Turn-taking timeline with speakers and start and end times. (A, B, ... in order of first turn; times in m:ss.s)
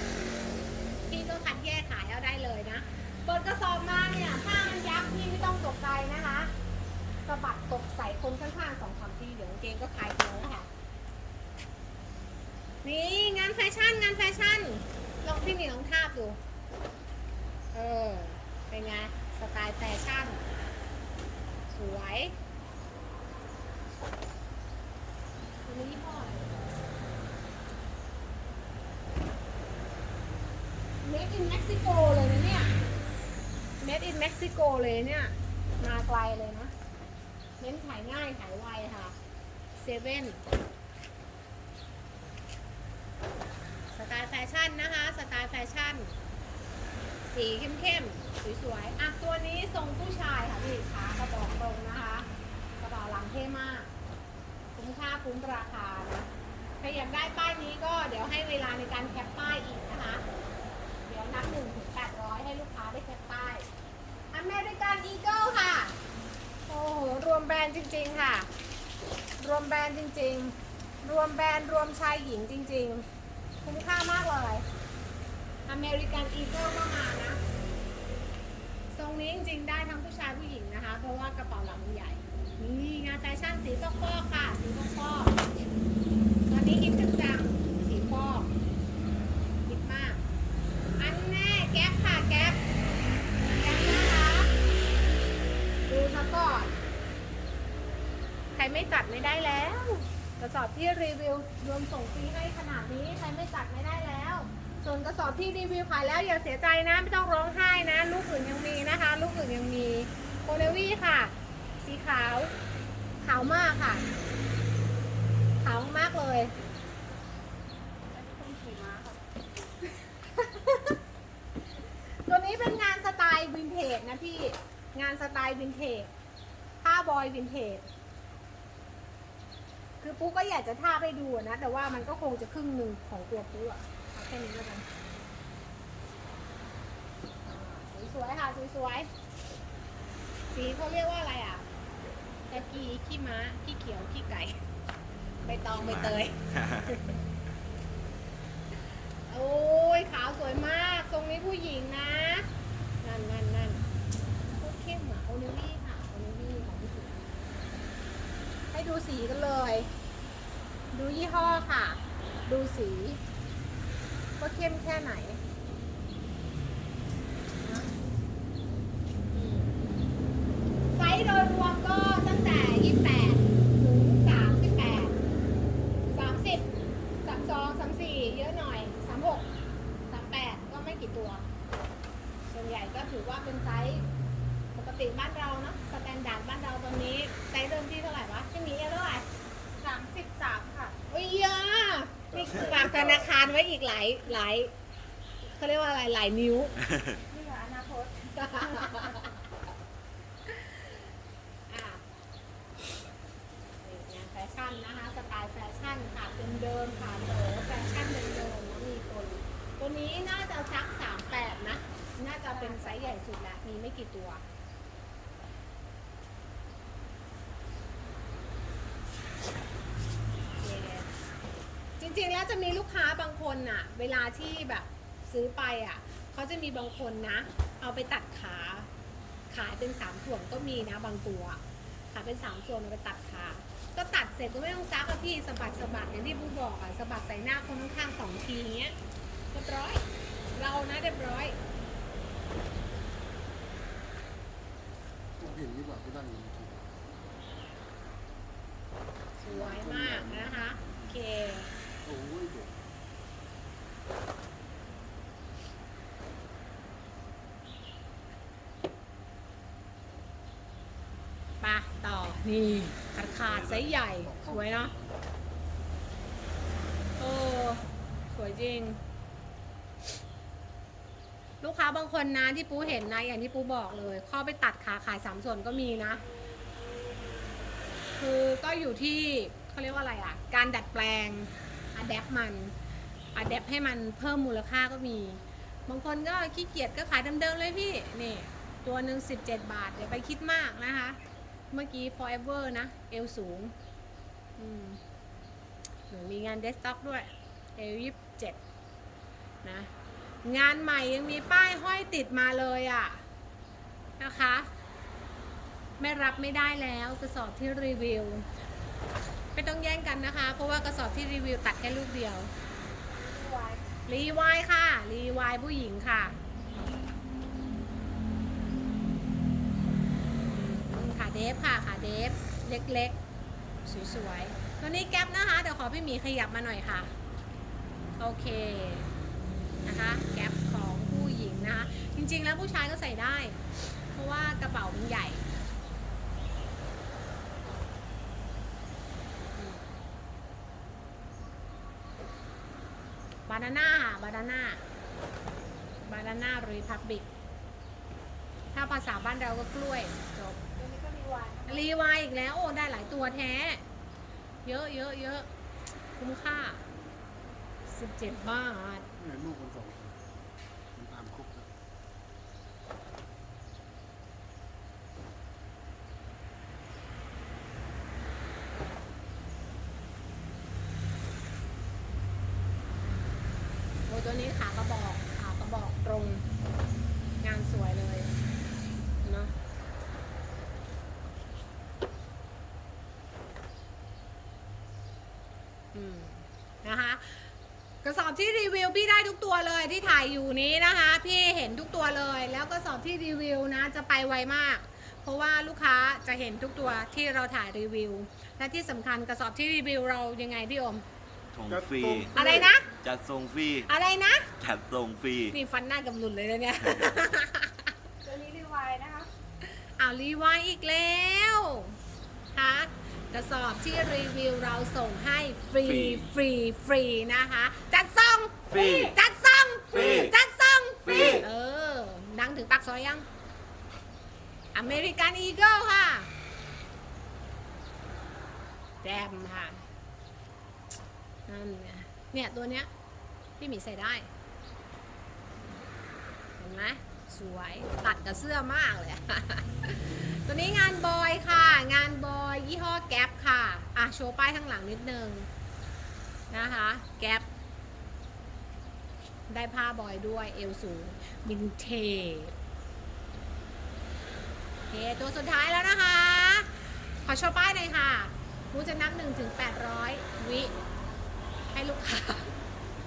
0:01.1-0:06.5 A
0:07.2-0:10.7 A
0:12.8-0:16.4 A
0:17.7-0:20.5 A
0:21.7-0:22.4 A
0:25.6-0:26.6 A
0:31.0-0:32.7 A
0:33.8-0:36.7 A
0:37.6-0:39.2 A
0:39.8-0:40.4 A
0:43.9-0:46.2 A
0:47.3-0:52.3 A
0:52.8-0:53.9 A
0:54.8-1:00.2 A
1:01.0-1:03.7 A
1:04.3-1:06.0 A
1:06.7-1:08.5 A
1:09.4-1:13.0 A
1:13.6-1:14.6 A
1:15.7-1:17.4 A
1:18.9-1:25.4 A
1:26.5-1:28.5 A
1:29.7-1:30.2 A
1:31.0-1:32.6 A
1:33.6-1:34.5 A
1:35.9-1:36.8 A
1:38.6-1:52.5 A
1:53.2-1:54.1 A
1:55.6-1:56.5 A
1:58.1-1:59.4 B
2:00.3-2:01.0 A
2:02.3-2:06.1 A
2:06.8-2:07.9 A
2:10.0-2:14.9 A
2:17.4-2:19.1 A
2:20.5-2:21.7 A
2:22.5-2:24.6 A
2:25.4-2:27.2 A
2:25.7-2:27.1 C
2:29.3-2:32.5 A
2:33.0-2:33.9 A
2:34.6-2:37.2 A
2:38.7-2:39.9 A
2:40.9-2:43.2 A
2:44.4-2:45.4 A
2:47.6-2:47.9 A
2:49.3-2:49.9 A
2:50.9-2:55.2 A
2:56.1-2:56.7 A
2:57.2-2:59.5 A
3:00.1-3:01.4 A
3:02.5-3:04.1 A
3:04.7-3:09.3 A
3:09.8-3:11.0 B
3:11.1-3:14.7 A
3:15.4-3:16.9 A
3:17.3-3:19.2 B
3:18.3-3:19.4 A
3:20.5-3:21.1 A
3:21.7-3:22.0 A
3:23.8-3:34.4 A
3:32.5-3:33.2 B
3:40.6-3:41.1 A
3:42.0-3:48.9 A
3:49.5-3:51.6 A
3:52.1-3:59.0 A
3:59.5-4:01.6 A
4:05.4-4:06.9 D
4:09.4-4:11.7 A
4:09.5-4:11.1 D
4:12.0-4:12.8 D
4:21.6-4:24.9 A
4:23.2-4:23.9 C
4:24.2-4:25.2 D
4:27.2-4:29.0 A
4:31.6-4:36.2 A
4:38.2-4:42.7 A
4:43.4-4:51.2 A
4:51.7-4:53.7 A
4:54.6-4:55.0 A
4:56.1-4:58.6 A
4:59.6-4:59.9 A
5:00.4-5:03.2 A
5:04.2-5:04.7 A
5:06.0-5:08.5 A
5:09.5-5:12.5 A
5:13.2-5:13.8 B
5:13.9-5:16.4 A
5:20.5-5:23.2 A
5:23.8-5:27.1 A
5:28.2-5:29.1 A
5:29.8-5:35.4 A
5:39.6-5:39.9 A
5:43.5-5:44.9 A
5:46.0-5:47.3 A
5:48.7-5:50.6 A
5:50.8-5:51.9 B
5:51.7-5:53.8 A
5:54.6-5:55.5 A
5:56.2-5:56.8 A
5:57.9-5:59.1 A
5:59.2-6:00.2 D
6:00.9-6:01.7 D
6:14.1-6:16.4 A
6:17.4-6:18.3 A
6:19.2-6:19.5 A
6:25.9-6:27.5 A
6:28.0-6:41.0 A
6:41.5-6:42.3 C
6:41.7-6:42.7 D
6:42.3-6:42.9 A
6:43.0-6:43.9 C
6:43.9-6:44.5 A
6:44.6-6:45.6 C
6:45.5-6:47.9 A
6:46.8-6:47.2 C
6:48.2-6:49.3 B
6:49.6-6:52.0 A
6:52.5-7:03.3 A
6:55.8-6:56.3 C
6:58.7-6:59.2 C
6:59.9-7:00.4 C
7:01.0-7:01.5 C
7:04.7-7:06.3 A
7:09.0-7:09.8 A
7:11.5-7:12.9 A
7:13.6-7:14.3 A
7:16.6-7:25.5 A
7:26.5-7:27.5 A
7:29.5-7:32.6 A
7:34.9-7:36.7 A
7:37.2-7:40.8 A
7:41.7-7:42.6 A